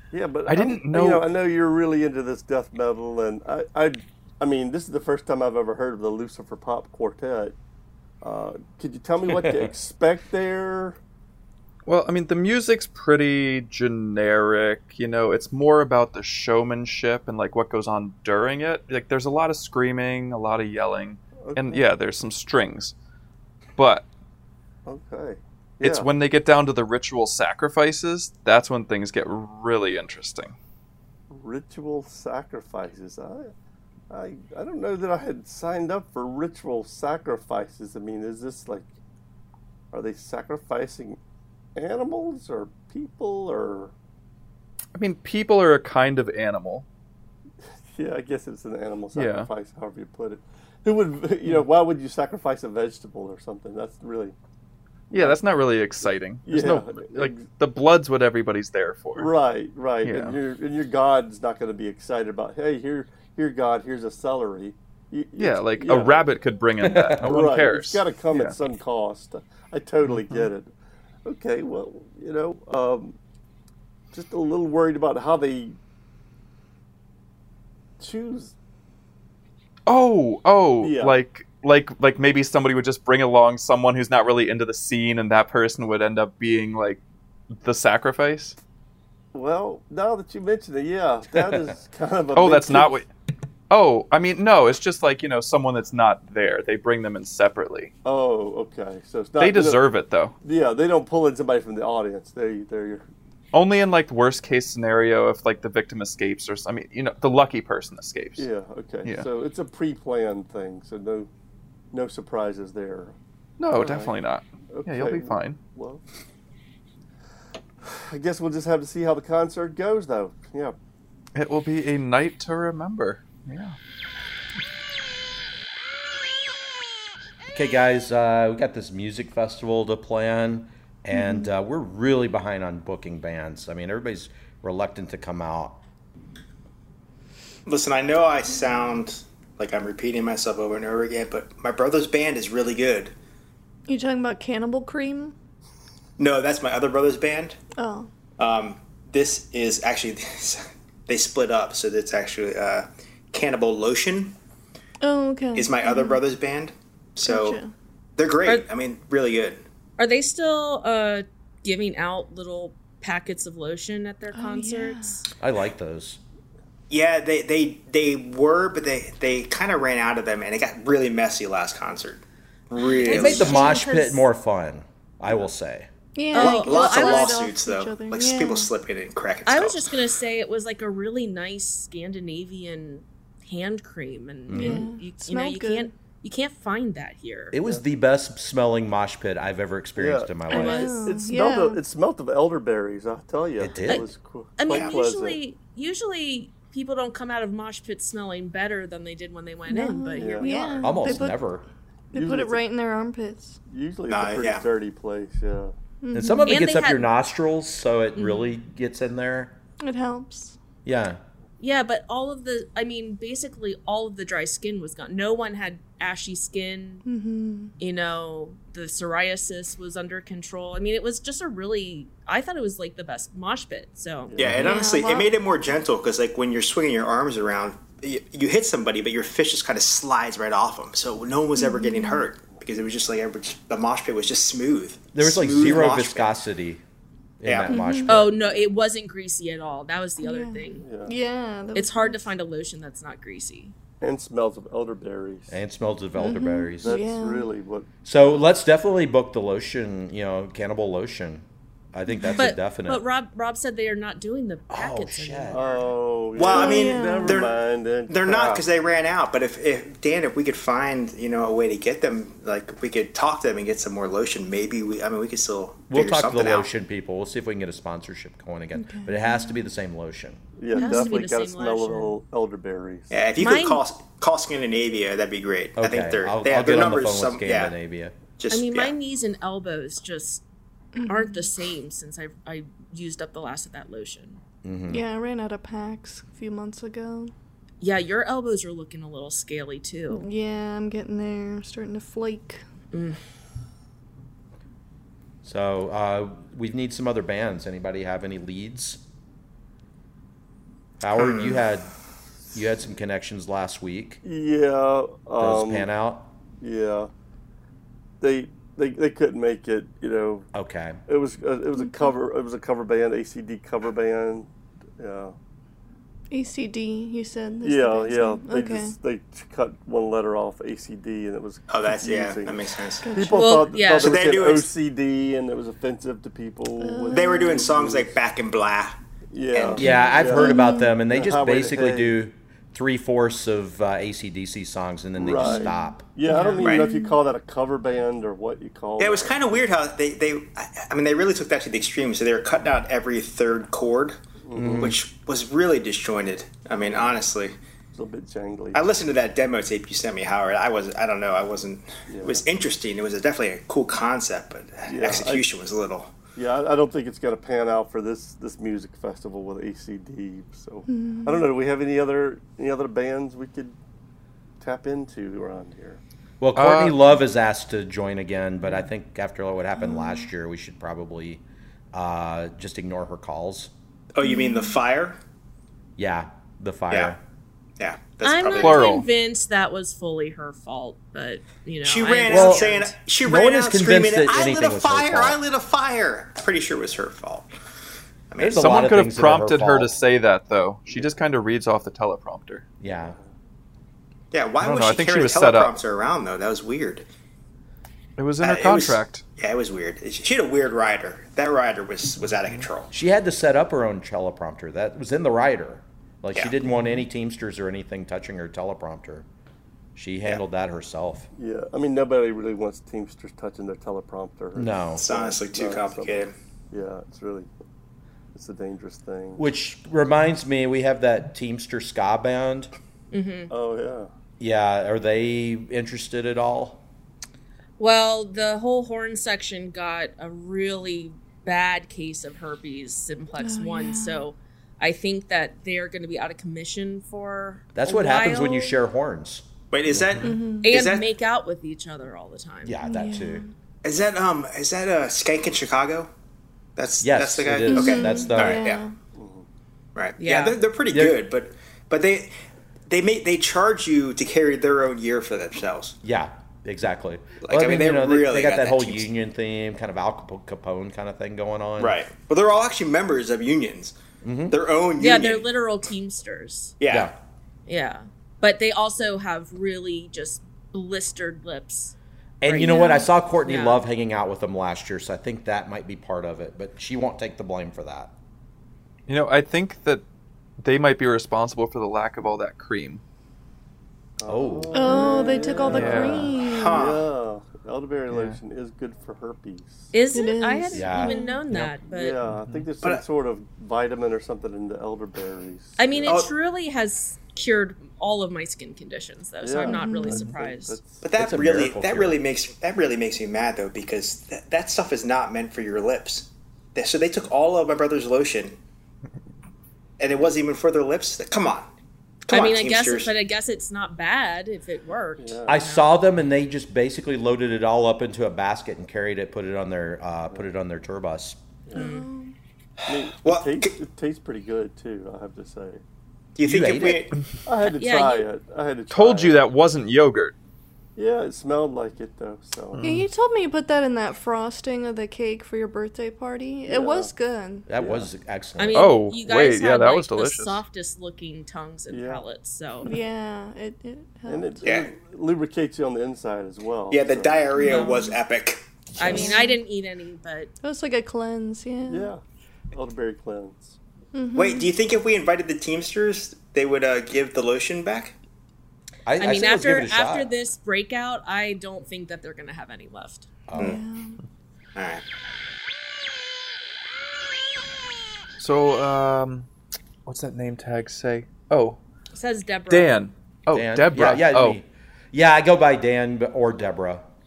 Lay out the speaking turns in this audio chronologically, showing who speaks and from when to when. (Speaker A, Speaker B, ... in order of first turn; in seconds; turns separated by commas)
Speaker A: 0.1-7.6, Speaker B: 0.5-1.3, Speaker A: 8.2-11.0, Speaker B: 11.9-22.9, Speaker A: 21.4-21.8, Speaker B: 23.8-24.1, Speaker A: 24.9-26.1, Speaker B: 25.8-30.6, Speaker A: 31.3-33.5, Speaker A: 34.1-38.9, Speaker A: 39.9-41.2, Speaker A: 41.8-43.9, Speaker B: 45.0-46.9, Speaker A: 47.9-54.4, Speaker B: 49.1-49.5, Speaker B: 55.1-59.3, Speaker A: 56.5-57.5, Speaker A: 59.1-66.3, Speaker B: 60.0-60.4, Speaker B: 65.4-68.6, Speaker C: 66.9-67.2, Speaker A: 67.0-70.7, Speaker B: 70.0-70.5, Speaker A: 71.2-73.2, Speaker A: 74.1-75.8, Speaker A: 78.0-78.5, Speaker B: 79.9-88.6, Speaker A: 80.8-81.2, Speaker A: 89.3-93.0, Speaker B: 92.3-93.1, Speaker B: 93.7-97.9, Speaker A: 98.0-99.9, Speaker B: 99.4-100.4, Speaker A: 100.4-103.1, Speaker B: 103.5-108.5, Speaker A: 108.4-111.3, Speaker A: 111.9-113.2, Speaker B: 113.6-115.6, Speaker A: 113.7-114.1, Speaker A: 114.7-116.0, Speaker A: 117.8-120.8, Speaker B: 121.3-123.8, Speaker C: 127.5-135.8, Speaker D: 131.1-131.5, Speaker E: 137.7-143.1, Speaker D: 143.9-145.3, Speaker E: 146.2-147.6, Speaker D: 147.8-148.1, Speaker E: 148.4-154.4, Speaker D: 155.0-156.2, Speaker E: 155.6-157.6, Speaker D: 157.2-157.7, Speaker E: 158.2-159.6, Speaker F: 160.0-165.2, Speaker D: 164.3-165.2, Speaker C: 165.4-166.2, Speaker E: 166.9-173.7, Speaker F: 172.8-174.1, Speaker D: 173.1-174.2, Speaker C: 173.1-175.9, Speaker D: 176.2-178.7, Speaker F: 176.3-177.4, Speaker E: 176.3-179.9, Speaker F: 179.5-187.6, Speaker C: 184.5-184.8, Speaker D: 184.5-185.9, Speaker C: 187.5-190.9, Speaker A: 190.0-195.4, Speaker D: 190.5-191.8, Speaker F: 190.5-190.9, Speaker C: 193.6-194.1, Speaker F: 193.9-201.2, Speaker E: 194.7-194.9, Speaker D: 199.7-201.4, Speaker A: 200.2-200.6, Speaker C: 200.8-201.7, Speaker D: 202.1-203.6, Speaker A: 202.1-202.6, Speaker A: 203.7-205.8, Speaker E: 204.1-204.7, Speaker D: 206.0-206.6, Speaker C: 206.1-209.6, Speaker F: 206.5-207.1, Speaker F: 208.2-208.5, Speaker D: 209.8-210.6, Speaker C: 210.8-211.2, Speaker F: 211.6-217.0, Speaker D: 217.1-217.7, Speaker F: 217.8-225.1, Speaker A: 224.3-224.6, Speaker E: 224.4-236.3, Speaker D: 224.6-225.3, Speaker D: 231.6-232.3, Speaker C: 235.2-236.8, Speaker C: 237.4-238.3, Speaker E: 237.4-237.8, Speaker D: 237.7-238.2, Speaker F: 238.1-240.9, Speaker D: 240.2-242.3, Speaker A: 240.8-241.1, Speaker F: 241.8-243.8, Speaker A: 244.0-245.6, Speaker C: 245.5-247.0, Speaker D: 246.2-247.5, Speaker A: 246.8-247.9, Speaker C: 248.1-253.0, Speaker D: 252.1-252.4, Speaker F: 252.3-255.9, Speaker C: 254.7-255.6, Speaker A: 255.5-258.6, Speaker E: 256.4-257.6, Speaker D: 256.5-257.5, Speaker E: 258.1-266.7, Speaker C: 265.9-270.4, Speaker D: 268.8-269.6, Speaker A: 270.6-273.1, Speaker D: 270.7-271.3, Speaker F: 270.7-272.1, Speaker E: 273.1-277.7, Speaker F: 273.4-273.8, Speaker C: 275.8-278.1, Speaker E: 278.4-278.9, Speaker F: 278.5-280.4, Speaker D: 280.9-281.5, Speaker F: 281.0-284.4, Speaker C: 284.6-285.1, Speaker D: 284.9-287.3, Speaker F: 287.8-290.3, Speaker D: 290.1-292.6, Speaker F: 292.9-293.2, Speaker C: 295.4-299.0, Speaker C: 301.0-301.9, Speaker E: 301.2-301.6, Speaker C: 302.5-304.2, Speaker A: 304.2-305.9, Speaker C: 305.4-306.3, Speaker A: 306.6-307.1, Speaker A: 308.2-310.5, Speaker C: 310.5-311.0, Speaker A: 311.1-315.4, Speaker D: 311.8-312.2, Speaker D: 316.3-319.0, Speaker A: 317.6-328.1, Speaker E: 321.7-323.3, Speaker D: 323.0-323.8, Speaker F: 323.3-324.2, Speaker E: 323.9-324.7, Speaker D: 326.8-327.7, Speaker E: 327.1-329.0, Speaker A: 329.3-332.1, Speaker E: 329.5-329.8, Speaker C: 329.8-336.1, Speaker D: 329.8-331.0, Speaker A: 335.2-339.4, Speaker D: 335.4-337.2, Speaker E: 336.6-336.9, Speaker E: 339.0-344.2, Speaker A: 344.4-344.9, Speaker C: 344.5-345.0, Speaker E: 344.8-347.6, Speaker A: 347.9-348.8, Speaker E: 348.7-356.1, Speaker A: 352.1-352.4, Speaker A: 354.9-355.4, Speaker A: 356.4-363.8, Speaker D: 360.9-361.5, Speaker A: 364.6-366.0, Speaker C: 366.4-373.7, Speaker B: 366.6-367.0, Speaker D: 369.8-370.3, Speaker E: 374.1-375.2, Speaker D: 374.2-374.8, Speaker C: 376.0-377.2, Speaker E: 377.8-379.0, Speaker F: 378.2-382.9, Speaker B: 378.6-379.1, Speaker E: 381.8-387.5, Speaker C: 382.3-382.6, Speaker C: 383.2-385.4, Speaker E: 388.3-388.7, Speaker C: 388.4-390.0, Speaker B: 388.6-392.7, Speaker C: 392.8-393.2, Speaker A: 392.9-393.2, Speaker E: 394.3-397.1, Speaker B: 394.6-395.7, Speaker B: 398.2-399.2, Speaker E: 398.4-402.9, Speaker C: 402.9-409.3, Speaker C: 410.0-411.3, Speaker A: 411.4-417.5, Speaker C: 414.6-415.0, Speaker E: 415.0-416.3, Speaker A: 418.3-419.4, Speaker C: 419.4-422.7, Speaker F: 423.1-423.5, Speaker A: 423.5-424.1, Speaker C: 424.4-426.8, Speaker F: 427.8-438.8, Speaker D: 433.4-434.3, Speaker C: 437.8-440.2, Speaker E: 439.7-441.1, Speaker D: 440.2-440.7, Speaker F: 440.6-442.8, Speaker C: 442.6-443.4, Speaker D: 442.8-443.5, Speaker E: 443.8-446.1, Speaker E: 446.8-448.8, Speaker C: 447.0-448.6, Speaker D: 447.7-448.9, Speaker A: 449.1-449.5, Speaker E: 449.9-452.3, Speaker F: 450.2-450.6, Speaker C: 450.9-451.2, Speaker E: 452.9-456.0, Speaker C: 456.0-462.0, Speaker E: 457.4-459.1, Speaker E: 461.8-463.9, Speaker C: 464.2-464.6, Speaker E: 464.5-465.5, Speaker F: 465.0-466.8, Speaker E: 466.8-467.1, Speaker F: 467.7-471.9, Speaker C: 472.4-478.1, Speaker F: 472.5-473.8, Speaker D: 472.6-473.1, Speaker B: 479.1-480.0, Speaker B: 480.6-483.0, Speaker A: 484.2-489.9, Speaker C: 484.3-484.9, Speaker D: 484.7-486.8, Speaker F: 484.9-485.4, Speaker B: 485.7-486.3, Speaker E: 486.4-487.1, Speaker B: 488.1-488.4, Speaker F: 489.9-492.2, Speaker D: 490.1-491.4, Speaker C: 490.7-491.2, Speaker A: 491.8-496.2, Speaker B: 492.2-492.7, Speaker F: 495.8-500.8, Speaker E: 496.1-496.3, Speaker A: 499.4-501.0, Speaker D: 499.6-500.2, Speaker E: 501.0-508.6, Speaker C: 501.2-502.2, Speaker E: 510.0-511.7, Speaker E: 512.3-513.1, Speaker F: 512.3-515.9, Speaker A: 515.2-515.5, Speaker C: 515.5-521.4, Speaker D: 521.7-522.4, Speaker F: 521.8-522.1, Speaker E: 522.8-523.7, Speaker A: 522.9-525.8, Speaker E: 526.4-527.2, Speaker C: 526.4-527.1, Speaker A: 527.5-529.4, Speaker F: 527.6-528.3, Speaker B: 528.9-530.4, Speaker A: 531.0-532.8, Speaker B: 532.7-533.1, Speaker D: 532.8-537.7, Speaker A: 536.7-537.1, Speaker C: 537.7-538.9, Speaker A: 537.8-538.1, Speaker F: 538.6-542.9, Speaker B: 538.7-540.6, Speaker A: 541.9-542.2, Speaker D: 542.8-544.7, Speaker A: 544.3-547.5, Speaker E: 544.6-544.9, Speaker E: 546.9-548.7, Speaker F: 547.6-548.1, Speaker D: 547.6-548.1, Speaker C: 548.9-549.3, Speaker F: 549.0-550.5, Speaker D: 549.0-549.6, Speaker D: 550.6-552.1, Speaker A: 551.9-553.8, Speaker D: 554.1-554.7, Speaker E: 554.4-558.2, Speaker C: 559.1-560.3, Speaker F: 559.2-563.3, Speaker C: 563.5-563.8, Speaker D: 563.6-564.2, Speaker E: 564.8-565.0, Speaker B: 568.4-569.5, Speaker B: 570.1-571.8, Speaker F: 572.1-573.0, Speaker B: 572.7-574.6, Speaker C: 573.5-577.0